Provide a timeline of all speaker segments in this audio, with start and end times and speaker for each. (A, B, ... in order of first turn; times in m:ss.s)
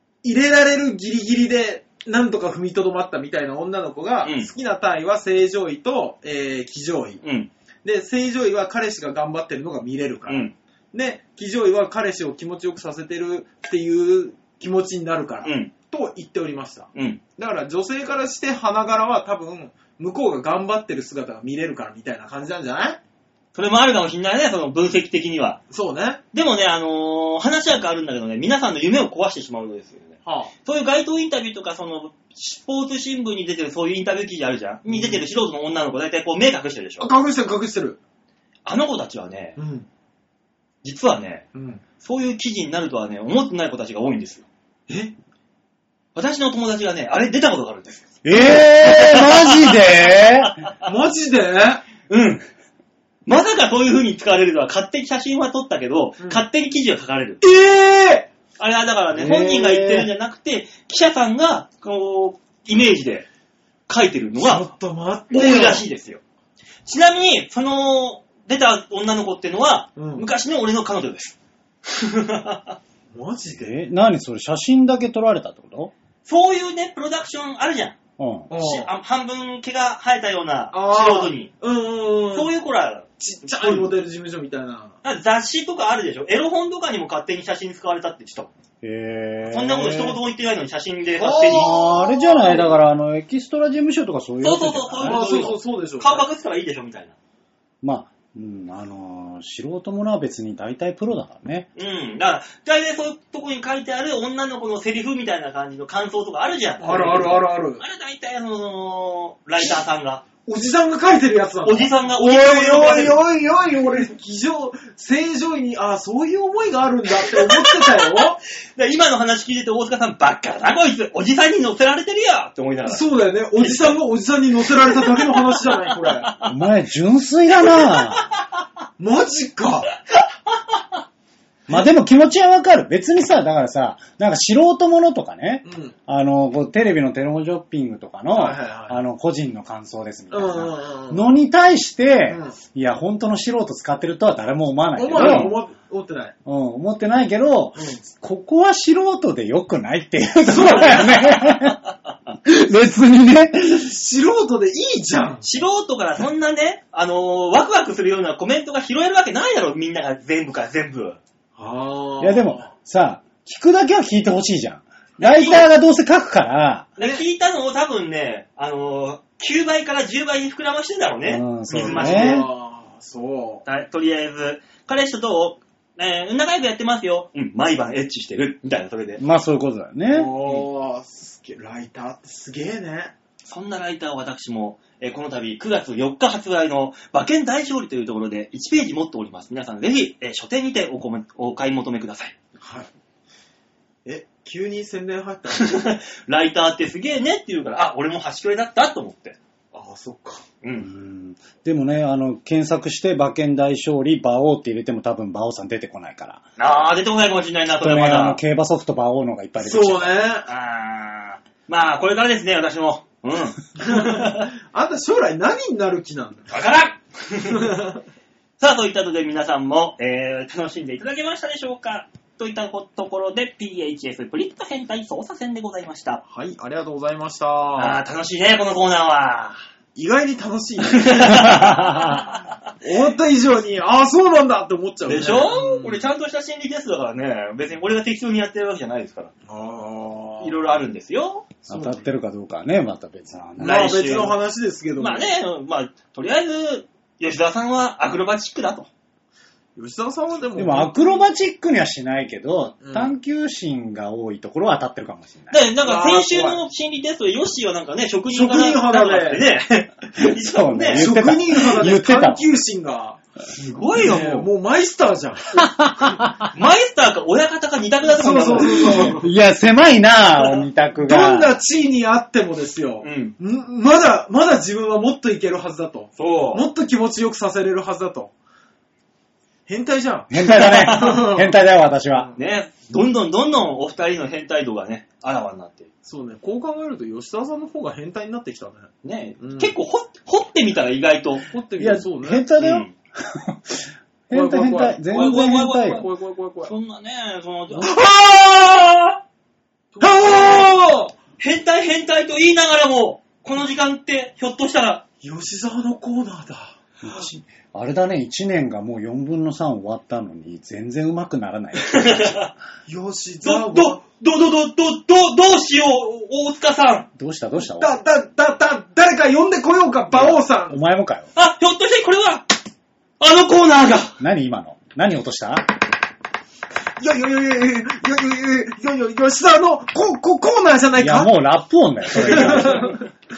0:00.2-0:07.2 A
0:04.2-0:04.5 B
0:07.2-0:07.5 B
0:07.8-0:23.0 A
0:10.3-0:10.5 B
0:15.4-0:15.7 B
0:16.9-0:17.2 B
0:23.5-0:25.6 B
0:25.7-0:26.2 A
0:26.3-0:37.1 B
0:30.2-0:30.5 A
0:34.9-0:35.2 A
0:37.0-0:38.0 A
0:38.6-0:39.6 B
0:39.6-0:39.9 A
0:40.8-0:41.4 B
0:41.5-0:41.8 A
0:42.0-0:44.4 B
0:44.9-0:45.1 A
0:46.1-0:50.9 B
0:48.2-0:50.6 C
0:50.8-0:51.8 A
0:52.1-0:52.4 B
0:53.2-0:57.4 B
0:57.4-0:58.3 A
0:58.6-1:03.2 B
0:59.1-1:00.1 C
1:03.9-1:04.7 B
1:04.4-1:05.8 A
1:05.3-1:06.2 B
1:06.8-1:12.8 B
1:10.0-1:10.3 A
1:13.1-1:13.7 A
1:13.5-1:15.9 C
1:16.2-1:18.0 B
1:18.2-1:18.5 C
1:18.5-1:18.9 A
1:18.5-1:21.5 B
1:20.7-1:22.5 A
1:22.3-1:23.9 B
1:23.2-1:25.0 A
1:25.0-1:28.5 B
1:28.8-1:30.2 C
1:29.5-1:31.8 B
1:31.1-1:32.8 A
1:31.5-1:35.5 C
1:34.4-1:37.1 B
1:35.0-1:36.2 A
1:37.8-1:41.7 C
1:41.8-1:50.2 B
1:46.8-1:47.8 A
1:50.4-1:58.4 A
1:51.6-1:53.2 B
1:57.2-2:03.0 B
2:02.8-2:06.3 A
2:03.6-2:04.0 B
2:04.8-2:06.5 B
2:06.4-2:08.2 C
2:07.9-2:08.4 B
2:09.0-2:09.9 A
2:10.1-2:10.8 B
2:11.7-2:25.6 C
2:15.6-2:15.9 A
2:18.3-2:19.0 A
2:20.3-2:21.3 A
2:22.3-2:22.6 A
2:25.0-2:26.3 A
2:25.1-2:25.5 B
2:26.4-2:31.8 C
2:27.8-2:28.0 A
2:30.4-2:31.3 A
2:30.8-2:32.4 B
2:32.4-2:33.8 C
2:33.7-2:35.4 A
2:35.4-2:41.2 B
2:41.6-2:42.7 A
2:42.2-2:46.9 C
2:45.2-2:45.6 B
2:47.0-2:52.5 B
2:51.2-2:52.5 C
2:51.8-2:53.6 A
2:53.6-2:59.2 B
2:59.2-3:00.3 C
3:00.1-3:03.1 A
3:03.4-3:12.3 B
3:12.6-3:12.9 A
3:14.0-3:15.8 A
3:15.5-3:19.4 B
3:19.7-3:20.4 A
3:20.6-3:20.9 B
3:20.8-3:26.4 C
3:26.6-3:28.4 B
3:27.8-3:30.3 C
3:29.6-3:30.5 A
3:30.4-3:34.5 B
3:33.8-3:36.6 A
3:36.5-3:37.8 B
3:37.5-3:38.0 A
3:38.6-3:46.2 B
3:46.3-3:48.0 A
3:47.8-3:49.6 B
3:49.9-3:52.0 A
3:50.8-3:52.7 B
3:51.5-3:52.2 C
3:52.8-3:56.0 A
3:55.0-3:59.3 B
3:59.4-4:00.6 A
4:00.4-4:01.5 B
4:01.7-4:04.3 C
4:01.7-4:02.0 A
4:03.6-4:04.4 B
4:03.6-4:05.3 A
4:05.0-4:08.9 B
4:09.8-4:11.0 A
4:10.6-4:15.6 C
4:12.8-4:13.1 A
4:15.5-4:21.1 B
4:15.8-4:16.6 A
4:18.3-4:19.4 A
4:20.2-4:22.4 C
4:20.9-4:23.2 A
4:23.5-4:24.4 B
4:23.9-4:25.7 A
4:24.1-4:24.4 C
4:25.6-4:26.5 C
4:26.5-4:29.2 B
4:28.0-4:29.3 A
4:28.7-4:31.5 C
4:31.0-4:38.3 A
4:33.0-4:33.3 B
4:36.2-4:36.6 B
4:39.7-4:41.6 A
4:40.3-4:42.3 C
4:40.4-4:41.3 B
4:42.3-4:45.9 B
4:46.0-4:49.7 A
4:49.0-4:51.5 B
4:51.4-4:52.4 A
4:51.8-4:56.0 C
4:52.6-4:52.9 B
4:54.3-4:56.7 A
4:55.1-4:56.0 B
4:56.6-4:59.2 B
4:59.9-5:01.2 A
5:00.1-5:00.5 B
5:01.4-5:05.0 B
5:05.2-5:06.8 A
5:07.0-5:12.4 C
5:11.8-5:12.5 B
5:12.9-5:14.0 A
5:13.4-5:17.1 B
5:17.2-5:17.9 C
5:17.7-5:20.8 A
5:20.2-5:21.3 C
5:21.4-5:22.5 B
5:23.2-5:24.2 B
5:24.2-5:25.7 C
5:27.0-5:31.3 A
5:31.0-5:32.9 C
5:32.1-5:33.0 B
5:32.2-5:33.0 A